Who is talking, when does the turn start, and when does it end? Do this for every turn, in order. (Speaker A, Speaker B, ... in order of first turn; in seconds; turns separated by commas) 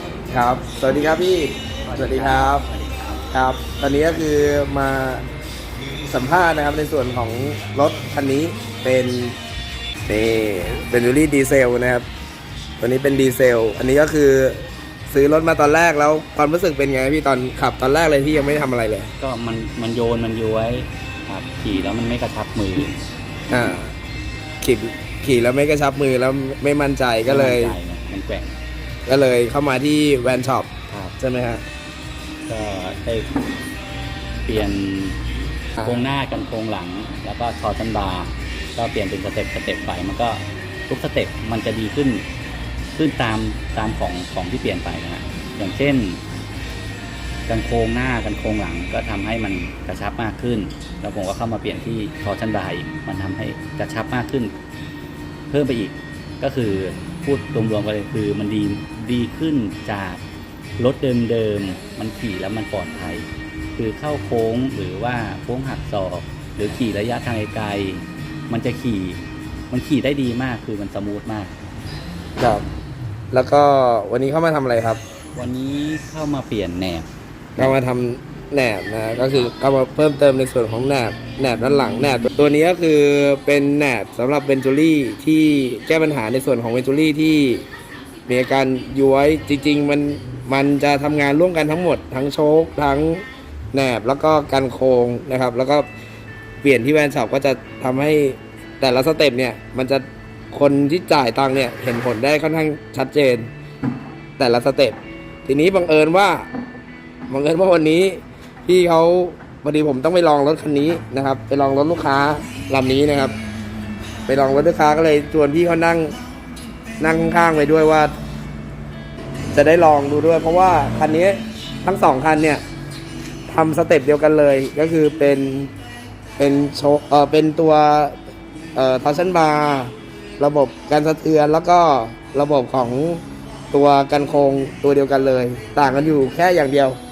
Speaker A: 0.3-2.7, Speaker B: 1.9-3.2, Speaker A: 3.3-5.2, Speaker A: 6.1-9.4, Speaker A: 10.1-12.1, Speaker A: 12.8-19.1, Speaker B: 19.2-22.9, Speaker A: 23.5-23.9, Speaker A: 24.6-27.8, Speaker B: 27.3-28.6, Speaker A: 29.1-31.6, Speaker B: 32.5-33.3, Speaker B: 34.5-35.2, Speaker A: 35.8-36.0, Speaker B: 35.8-42.3, Speaker B: 43.0-46.2, Speaker B: 47.5-54.5, Speaker B: 55.5-60.2, Speaker B: 60.8-71.5, Speaker A: 72.4-72.7, Speaker A: 73.3-75.0, Speaker B: 75.3-77.1, Speaker A: 77.6-87.6, Speaker B: 79.2-79.5, Speaker A: 88.3-95.9, Speaker A: 96.6-103.5, Speaker A: 104.4-106.5, Speaker A: 107.3-113.3, Speaker A: 114.3-116.1, Speaker A: 117.0-118.1, Speaker A: 119.5-122.6, Speaker A: 123.5-125.7, Speaker A: 126.4-128.2, Speaker A: 128.8-137.0